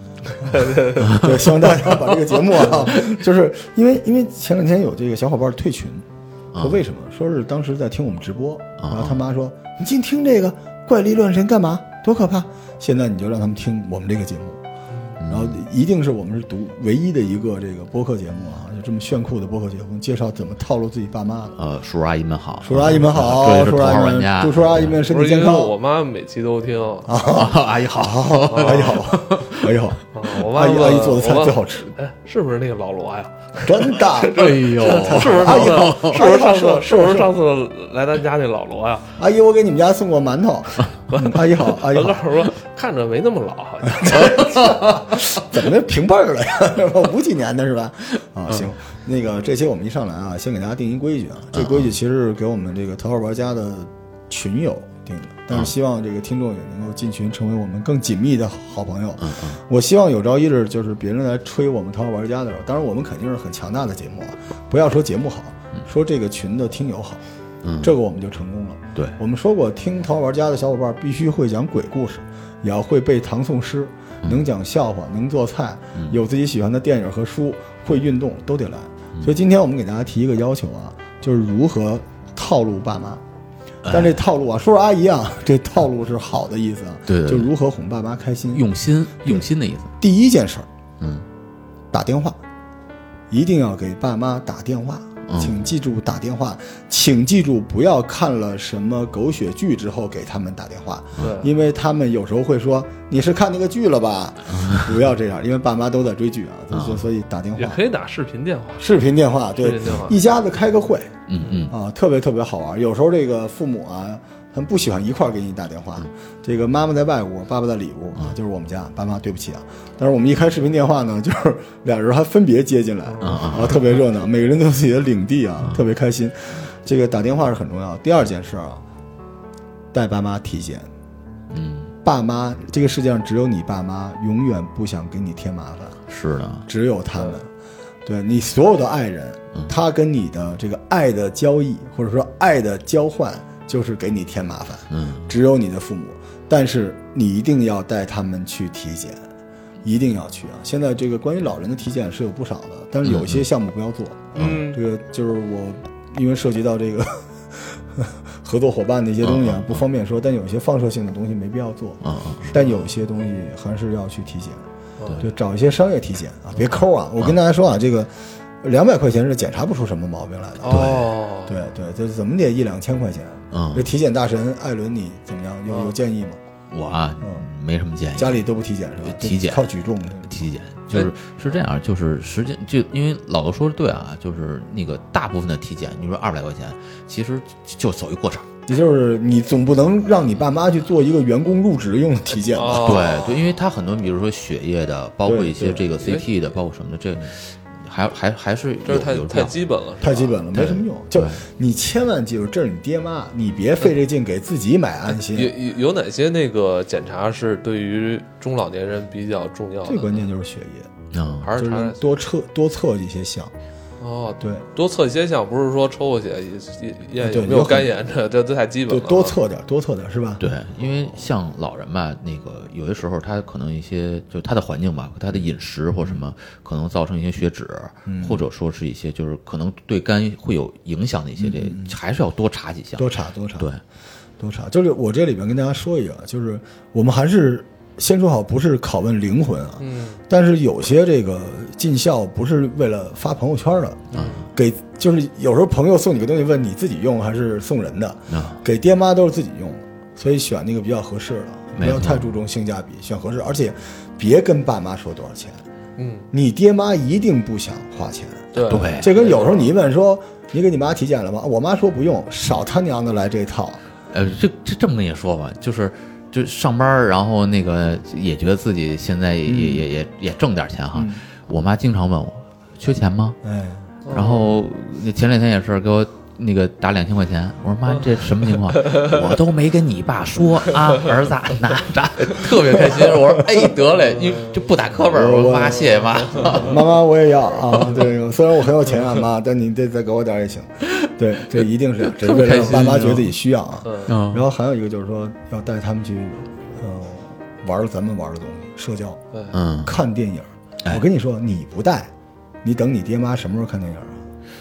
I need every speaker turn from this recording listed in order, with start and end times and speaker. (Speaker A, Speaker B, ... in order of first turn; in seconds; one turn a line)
Speaker A: 0.3-1.2
Speaker B: 1.0-6.1
Speaker C: 6.5-6.8
Speaker B: 6.6-14.6
Speaker C: 8.8-9.2
Speaker C: 15.2-15.6
Speaker B: 15.3-21.6
Speaker C: 21.6-25.0
Speaker B: 22.6-25.7
Speaker A: 25.1-27.3
Speaker B: 27.1-31.9
Speaker C: 27.3-29.8
Speaker A: 28.5-29.0
Speaker A: 30.1-39.1
Speaker B: 33.6-37.3
Speaker C: 34.3-36.2
Speaker B: 39.2-42.4
Speaker A: 41.1-44.5
Speaker B: 43.8-67.2
Speaker C: 51.6-51.9
Speaker C: 59.2-59.6
Speaker C: 67.6-67.9
Speaker B: 67.8-83.2
Speaker C: 83.8-84.2
Speaker B: 83.9-88.7
Speaker C: 87.1-87.5
Speaker C: 88.5-89.9
Speaker B: 90.0-90.7
Speaker C: 91.0-91.3
Speaker B: 91.9-92.4
Speaker B: 93.3-107.8
Speaker C: 95.3-95.6
Speaker A: 101.2-101.5
Speaker C: 104.5-105.0
Speaker C: 106.7-107.1
Speaker A: 107.6-108.9
Speaker B: 108.8-128.8
Speaker A: 109.6-110.2
Speaker C: 111.3-111.7
Speaker A: 111.4-111.7
Speaker A: 123.1-123.5
Speaker C: 123.2-123.8
Speaker B: 129.9-130.9
Speaker C: 131.5-131.9
Speaker B: 132.0-136.0
Speaker C: 136.1-136.7
Speaker B: 136.7-137.5
Speaker B: 138.1-149.3
Speaker C: 144.9-145.3
Speaker B: 149.8-164.7
Speaker C: 153.1-153.4
Speaker A: 154.4-154.8
Speaker C: 154.4-154.6
Speaker C: 159.2-159.8
Speaker C: 162.0-162.6
Speaker A: 165.0-165.2
Speaker B: 165.2-170.9
Speaker A: 170.6-171.6
Speaker C: 170.7-171.1
Speaker B: 171.5-176.4
Speaker C: 173.5-173.9
Speaker A: 175.7-175.9
Speaker C: 176.7-178.4
Speaker B: 178.2-180.4
Speaker C: 179.0-179.6
Speaker C: 180.3-188.5
Speaker B: 188.7-193.1
Speaker A: 192.5-193.4
Speaker C: 192.8-199.6
Speaker B: 195.3-195.9
Speaker A: 196.0-196.2
Speaker A: 198.9-200.4
Speaker B: 200.0-205.5
Speaker C: 200.5-201.4
Speaker A: 205.3-210.2
Speaker B: 209.8-210.9
Speaker C: 211.1-211.5
Speaker A: 211.4-212.2
Speaker B: 211.5-213.5
Speaker A: 214.0-219.4
Speaker B: 217.2-217.9
Speaker B: 218.9-220.5
Speaker C: 220.4-233.8
Speaker B: 228.1-228.4
Speaker B: 231.4-231.9
Speaker B: 233.0-233.7
Speaker B: 234.4-255.6
Speaker A: 239.8-240.2
Speaker A: 244.1-244.5
Speaker C: 244.1-244.4
Speaker C: 248.3-248.6
Speaker C: 251.8-252.3
Speaker A: 256.0-256.3
Speaker B: 256.3-263.8
Speaker A: 258.5-259.7
Speaker C: 258.7-259.1
Speaker C: 264.1-273.4
Speaker B: 269.5-269.9
Speaker B: 270.9-271.2
Speaker B: 273.4-273.9
Speaker A: 274.1-274.6
Speaker C: 274.1-286.8
Speaker A: 278.6-279.2
Speaker B: 282.9-283.4
Speaker A: 284.1-284.6
Speaker B: 285.1-299.2
Speaker A: 286.3-286.6
Speaker C: 292.0-293.3
Speaker A: 293.8-294.2
Speaker C: 294.1-294.5
Speaker A: 299.3-299.6
Speaker C: 299.5-299.9
Speaker B: 299.8-302.1
Speaker B: 302.6-304.3